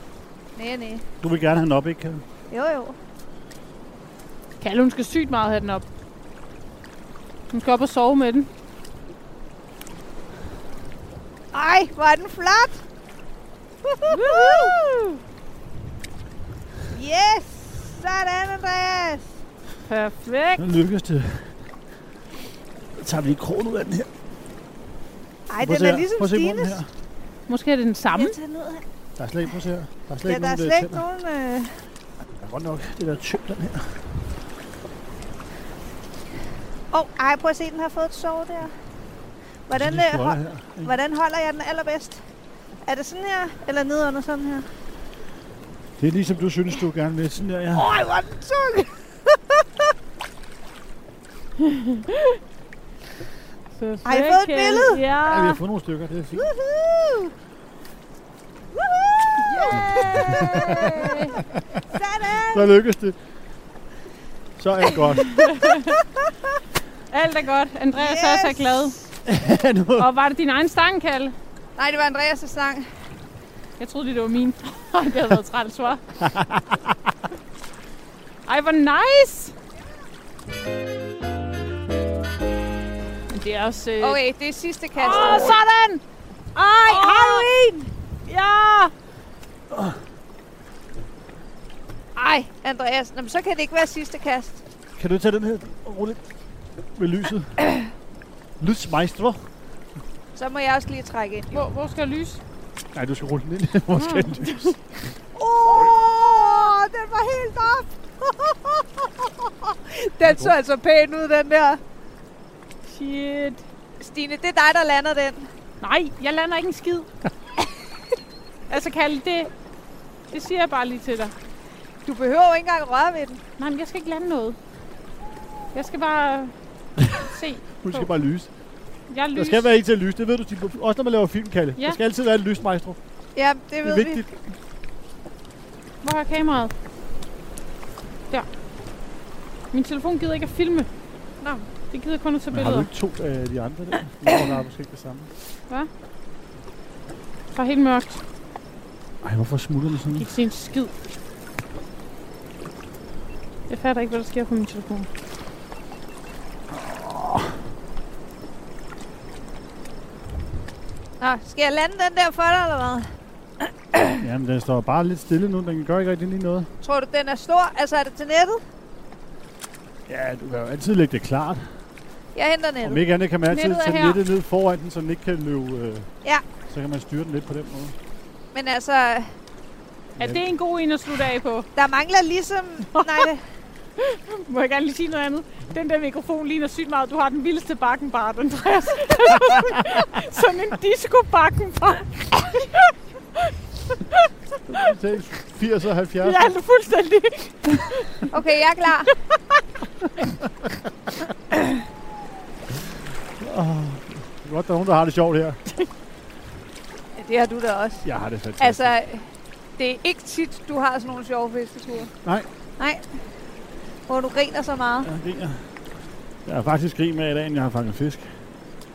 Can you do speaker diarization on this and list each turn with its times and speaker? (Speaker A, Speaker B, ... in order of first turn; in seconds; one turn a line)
Speaker A: 0.6-1.0
Speaker B: 1.2-2.2
Speaker A: 2.5-3.0
Speaker C: 4.6-5.8
Speaker C: 7.5-8.5
Speaker A: 11.5-12.8
Speaker A: 13.8-15.0
Speaker C: 14.1-14.8
Speaker A: 16.9-19.3
Speaker C: 19.9-20.6
Speaker B: 20.6-21.6
Speaker B: 23.0-24.1
Speaker A: 25.5-26.8
Speaker B: 25.6-26.9
Speaker C: 27.5-28.4
Speaker A: 28.1-28.8
Speaker B: 29.2-31.0
Speaker A: 30.2-31.8
Speaker B: 32.4-34.0
Speaker A: 36.9-38.7
Speaker A: 39.7-42.2
Speaker B: 39.7-41.0
Speaker A: 42.9-44.7
Speaker B: 46.0-48.0
Speaker A: 47.7-49.6
Speaker C: 51.6-52.3
Speaker C: 53.7-55.6
Speaker A: 54.0-55.0
Speaker B: 55.2-56.5
Speaker A: 56.4-57.3
Speaker A: 58.8-61.2
Speaker C: 59.5-61.3
Speaker B: 59.7-60.9
Speaker A: 61.9-62.7
Speaker B: 62.3-63.2
Speaker B: 64.6-65.4
Speaker C: 65.3-66.0
Speaker C: 67.1-69.0
Speaker A: 67.9-69.1
Speaker B: 69.2-70.1
Speaker C: 70.0-71.3
Speaker A: 71.8-72.9
Speaker C: 73.8-76.0
Speaker B: 76.2-76.6
Speaker C: 78.5-79.5
Speaker C: 83.3-84.2
Speaker A: 84.0-85.6
Speaker C: 84.9-86.0
Speaker A: 86.5-87.9
Speaker C: 86.8-87.5
Speaker C: 88.2-88.9
Speaker B: 89.7-90.0
Speaker A: 92.2-94.6
Speaker B: 95.0-96.2
Speaker B: 97.0-97.6
Speaker B: 98.6-99.5
Speaker A: 100.3-101.6
Speaker C: 101.5-102.4
Speaker B: 102.9-104.8
Speaker C: 103.9-104.7
Speaker A: 105.3-111.8
Speaker B: 105.7-105.9
Speaker B: 110.2-110.5
Speaker C: 112.9-113.6
Speaker A: 114.0-115.5
Speaker C: 115.8-117.1
Speaker C: 118.7-119.5
Speaker C: 120.3-121.3
Speaker A: 122.0-123.4
Speaker C: 123.6-124.6
Speaker C: 125.7-126.5
Speaker C: 127.2-128.1
Speaker B: 127.8-128.5
Speaker C: 129.1-129.7
Speaker B: 129.3-133.0
Speaker A: 133.3-134.2
Speaker B: 133.8-134.4
Speaker C: 136.0-136.7
Speaker C: 139.7-140.9
Speaker A: 141.4-141.7
Speaker C: 141.9-142.9
Speaker B: 142.5-145.3
Speaker C: 147.5-148.2
Speaker B: 149.2-150.3
Speaker C: 150.1-150.9
Speaker C: 153.7-155.1
Speaker B: 156.7-157.5
Speaker A: 161.2-163.1
Speaker B: 164.2-166.7
Speaker A: 166.8-168.6
Speaker B: 170.1-171.7
Speaker A: 172.3-173.0
Speaker B: 172.8-178.0
Speaker C: 173.5-174.2
Speaker A: 178.5-179.3
Speaker B: 180.2-180.5
Speaker C: 180.2-181.7
Speaker A: 181.8-183.4
Speaker C: 182.9-183.3
Speaker C: 184.0-194.3
Speaker B: 194.7-196.5
Speaker C: 196.2-198.3
Speaker A: 198.3-199.1
Speaker B: 203.4-205.6
Speaker A: 207.2-208.0
Speaker B: 208.0-208.9
Speaker A: 208.6-212.1
Speaker B: 212.2-212.5
Speaker A: 212.8-213.0
Speaker A: 214.1-215.1
Speaker B: 215.0-215.8
Speaker B: 216.4-218.4